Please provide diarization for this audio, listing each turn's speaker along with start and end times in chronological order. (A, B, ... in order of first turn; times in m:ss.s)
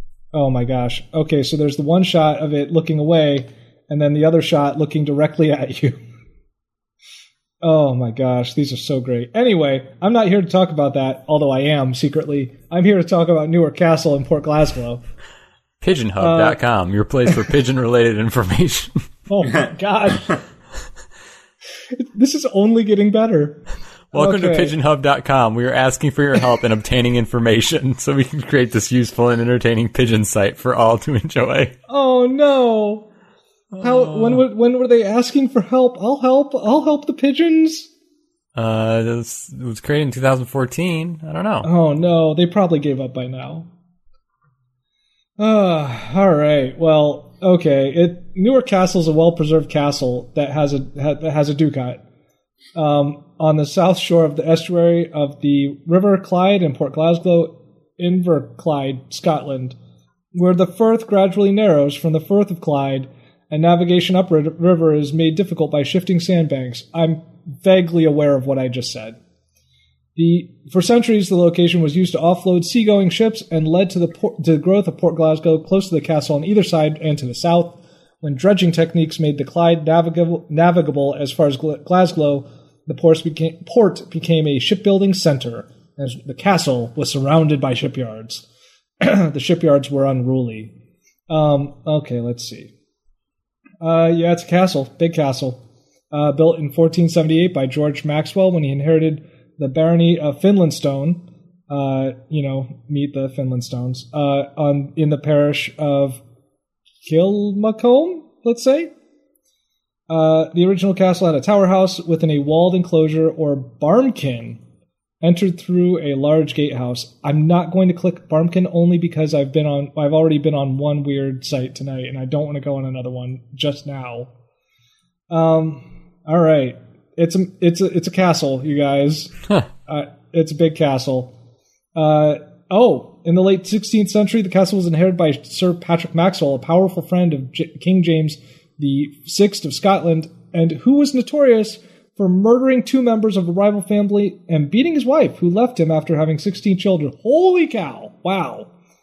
0:00.3-0:06.0 A
0:07.6-0:15.0 A
0:15.8-0:19.0 B
0:16.2-0:16.6 A
0:19.3-0:20.4 A
0:22.0-0:24.7 A
0:24.1-0:31.7 B
0:31.9-0:33.1 A
0:33.7-0:34.4 B
0:33.8-0:37.9 A
0:38.6-0:41.7 B
0:41.6-0:43.7 A
0:45.4-0:52.0 A
0:52.7-0:59.8 A
1:00.3-1:09.2 A
1:10.2-1:28.4 A
1:29.0-1:30.7 A
1:31.3-1:32.7 A
1:33.8-1:35.6 A
1:36.1-1:46.2 A
1:47.0-1:48.9 A
1:50.1-1:54.6 A
1:55.2-2:04.3 A
2:05.3-2:09.3 A
2:09.9-2:11.3 A
2:11.9-2:28.7 A